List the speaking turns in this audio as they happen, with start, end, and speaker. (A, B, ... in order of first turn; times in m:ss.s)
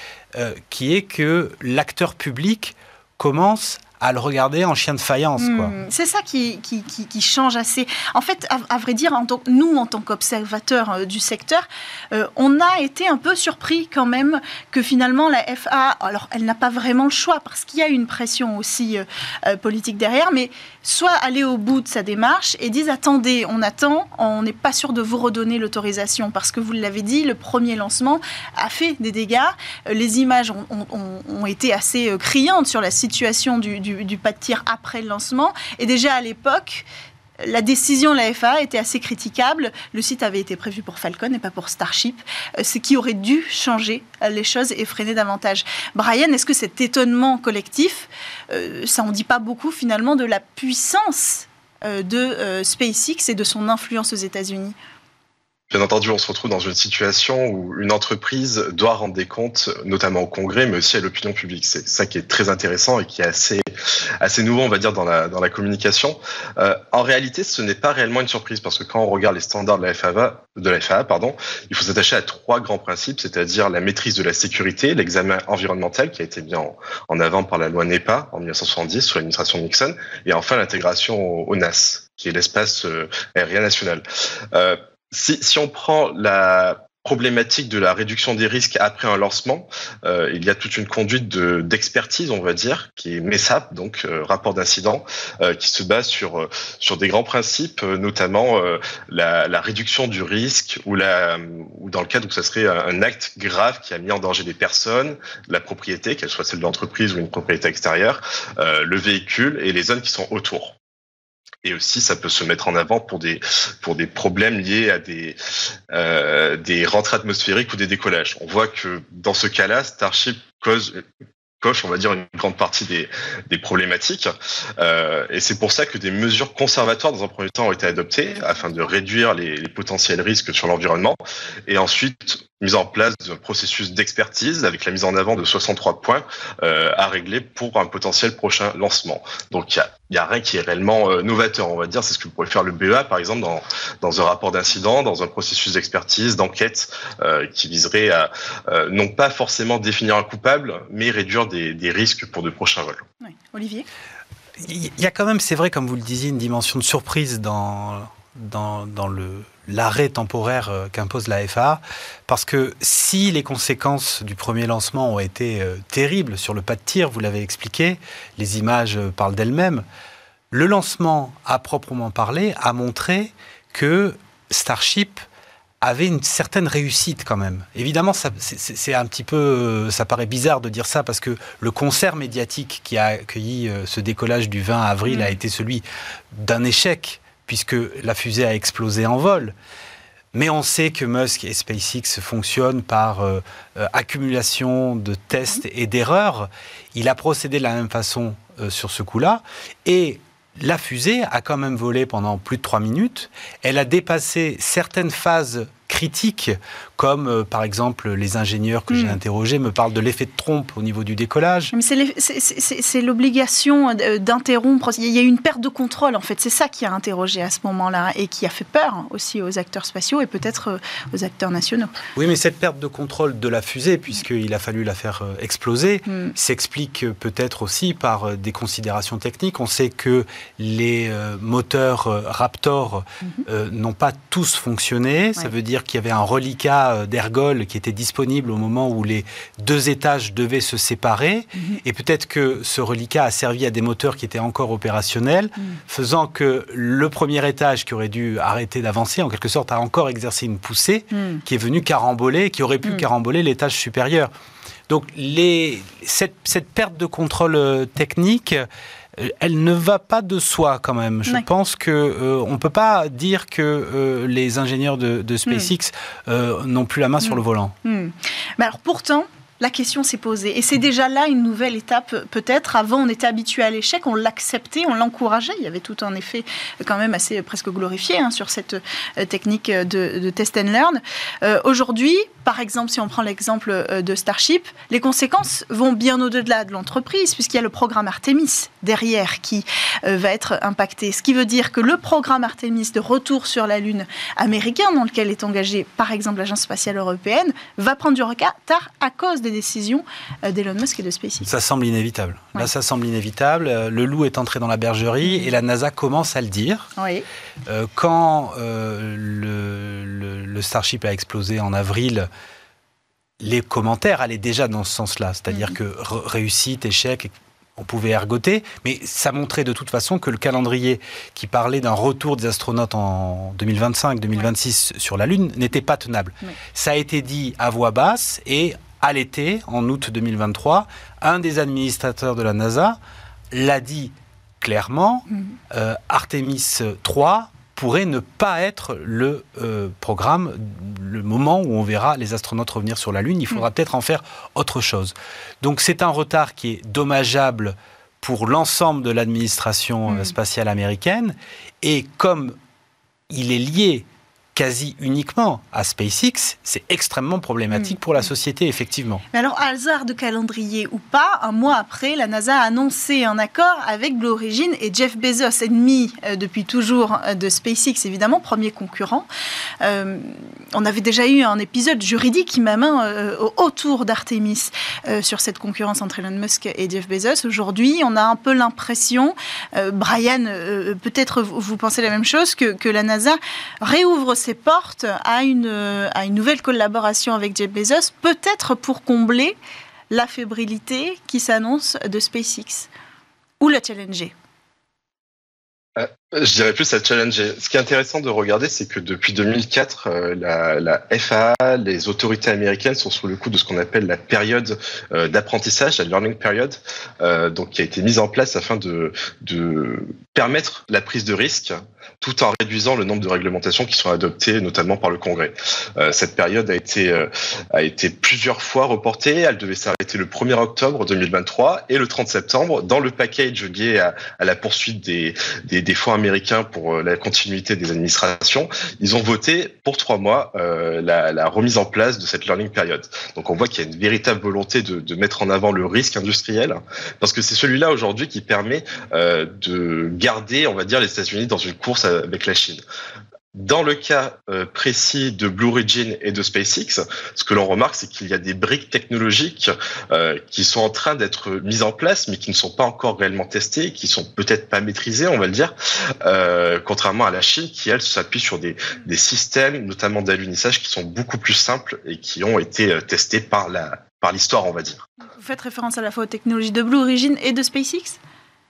0:00.3-0:05.7 A
0:05.4-0:36.8 B
0:37.4-0:54.7 B
0:55.7-1:03.6 C
1:04.2-1:50.8 C
1:51.6-1:55.4 C
1:55.9-2:01.0 C
2:01.6-2:33.0 C
2:33.2-2:33.9 B
2:34.6-2:49.8 A
2:50.5-2:55.2 A
2:55.8-3:09.5 A
3:05.1-3:05.3 B
3:10.3-3:31.7 A
3:28.9-3:29.2 B
3:31.7-3:41.9 B
3:42.1-4:14.3 A
3:46.1-3:46.3 B
4:01.5-4:01.8 B
4:11.1-4:11.4 B
4:14.9-4:27.7 A
4:27.2-5:01.5 B
5:01.4-5:06.9 A
5:05.2-5:05.5 B
5:07.0-5:07.2 B
5:07.6-5:12.3 A
5:13.4-5:33.0 A
5:33.5-5:52.6 A
5:50.1-5:50.3 B
5:53.3-5:59.2 A
5:57.7-5:58.0 B
5:59.3-6:09.3 B
6:09.8-6:29.6 B
6:30.1-6:32.9 B
6:33.6-6:34.3 B
6:36.0-7:22.8 C
7:23.5-7:45.1 C
7:45.2-7:48.2 B